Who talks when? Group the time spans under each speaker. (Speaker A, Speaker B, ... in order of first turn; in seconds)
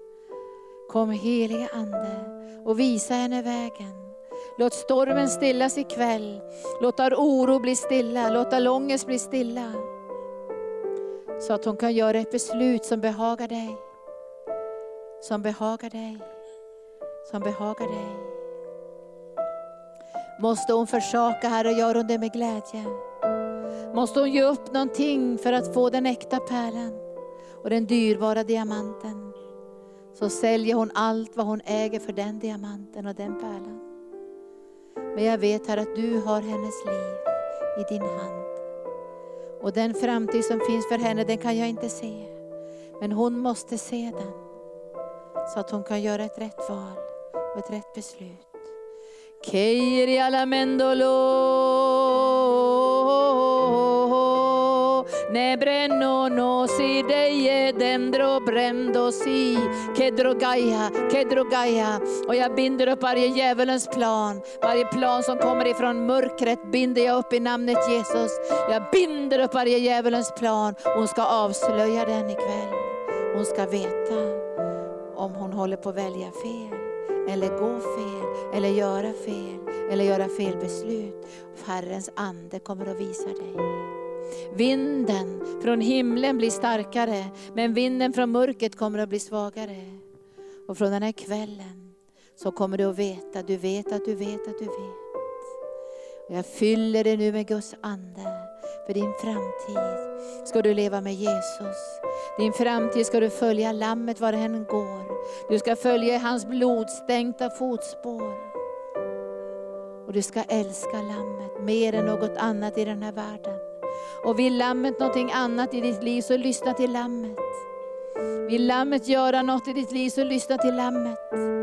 Speaker A: 0.9-9.9, 11.4-13.8, 15.2-16.3, 17.2-18.4, 20.4-23.0, 23.9-27.0, 27.6-29.3, 30.1-33.8, 35.1-38.6, 39.6-42.3, 43.0-44.4, 45.5-48.6, 49.4-74.4, 75.1-83.8, 84.5-90.0, 90.7-95.0, 96.3-108.5, 110.0-113.6, 114.2-117.6, 118.5-121.5